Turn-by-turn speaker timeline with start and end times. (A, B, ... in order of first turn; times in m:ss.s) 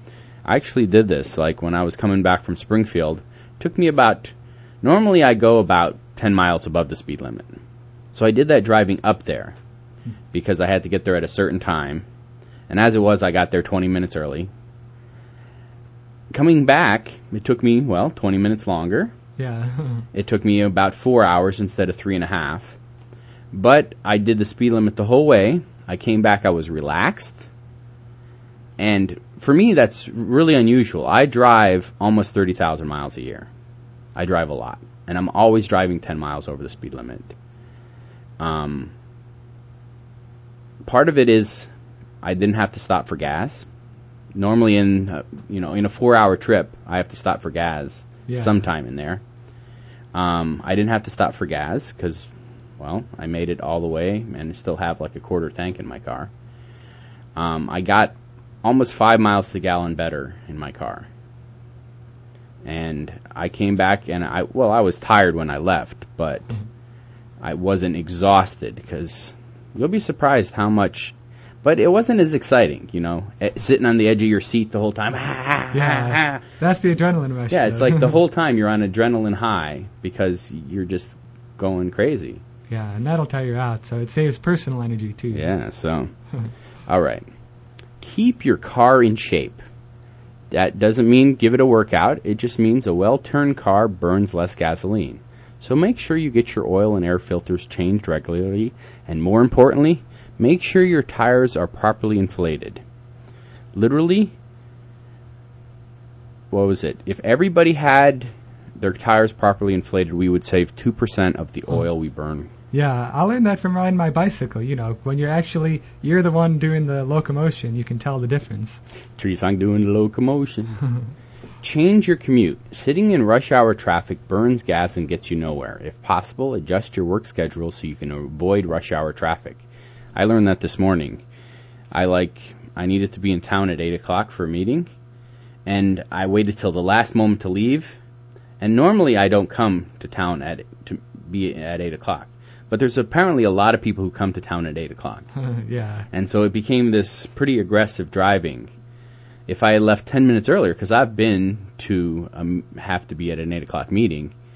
0:00.4-0:07.6 A
0:08.1-0:09.6 A
0:10.3-0:12.1 A
0:12.7-0:14.5 A
0:16.3-0:19.1 A
0:19.4-0:20.1 B
0:20.1-0:22.8 A
0:23.5-0:27.5 A
0:28.8-0:33.5 A
0:34.2-0:37.3 A
0:38.4-0:38.9 A
0:40.8-0:41.7 A
0:42.2-0:43.7 A
0:44.4-0:49.2 A
0:48.3-0:48.6 B
0:50.1-0:56.3 A
0:57.4-1:01.1 A
1:02.6-1:06.5 A
1:07.4-1:16.4 A
1:15.7-1:18.2 B
1:17.5-1:22.4 A
1:22.7-1:25.5 B
1:25.3-1:26.1 A
1:26.9-1:27.3 A
1:28.0-1:29.6 A
1:30.5-1:42.8 A
1:43.7-1:44.3 A
1:46.5-1:52.5 A
1:52.7-1:58.8 B
1:59.2-2:00.8 A
2:01.6-2:09.6 A
2:10.2-2:11.2 A
2:11.9-2:14.9 A
2:15.7-2:18.0 A
2:18.6-2:25.3 A
2:25.4-2:26.1 B
2:26.1-2:28.7 A
2:29.5-2:34.3 A